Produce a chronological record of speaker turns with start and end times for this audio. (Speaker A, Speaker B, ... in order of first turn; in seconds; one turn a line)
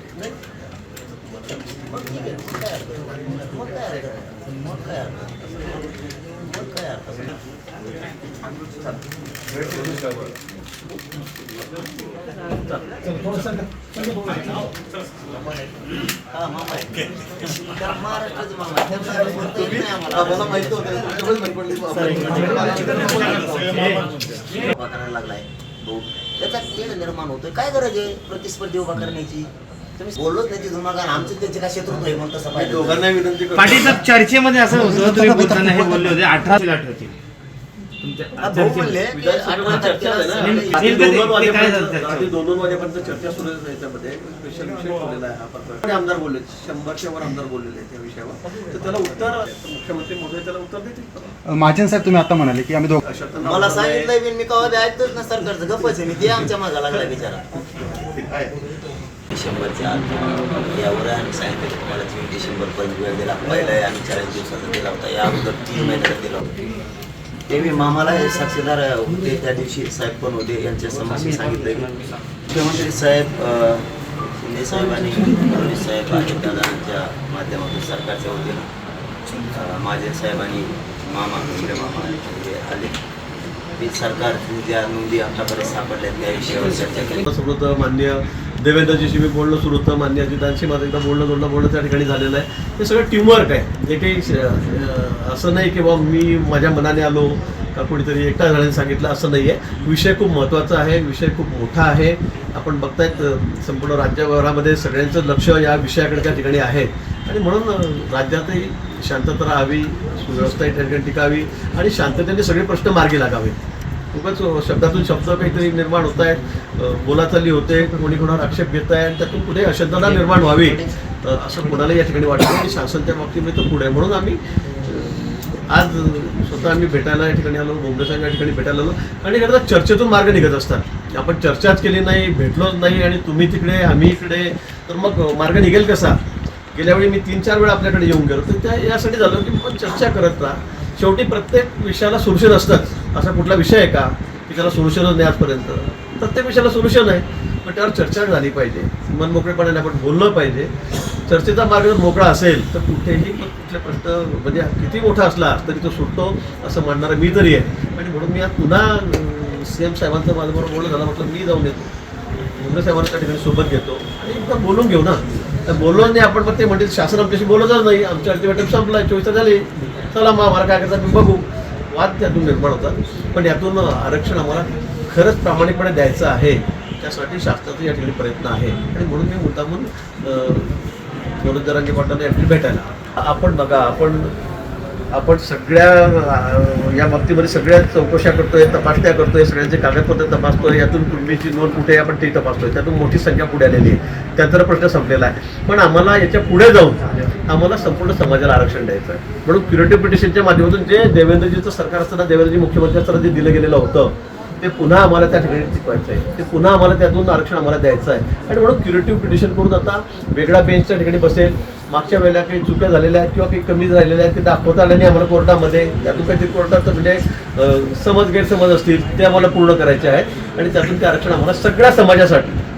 Speaker A: 1.3-7.4
Speaker B: 9.5-10.4
Speaker B: 12.6-14.5
Speaker A: 16.3-20.8
Speaker B: 20.1-24.3
Speaker C: 21.9-24.1
Speaker A: 24.6-33.0
Speaker B: 32.5-34.0
Speaker C: 33.5-37.1
Speaker D: 34.8-36.1
Speaker C: 38.0-39.0
Speaker A: 38.4-41.0
Speaker B: 39.0-51.4
Speaker C: 40.4-42.3
Speaker D: 51.5-53.0
Speaker B: 53.0-54.1
Speaker A: 53.4-57.5
Speaker A: 59.3-66.6
Speaker A: 67.5-78.7
Speaker A: 79.3-83.0
Speaker A: 83.8-87.3
Speaker B: 86.6-113.6
Speaker B: 114.1-136.2
Speaker B: 136.7-150.7
Speaker B: 151.3-161.9
Speaker B: 162.6-180.8
Speaker B: 181.4-184.3
Speaker B: 185.1-222.6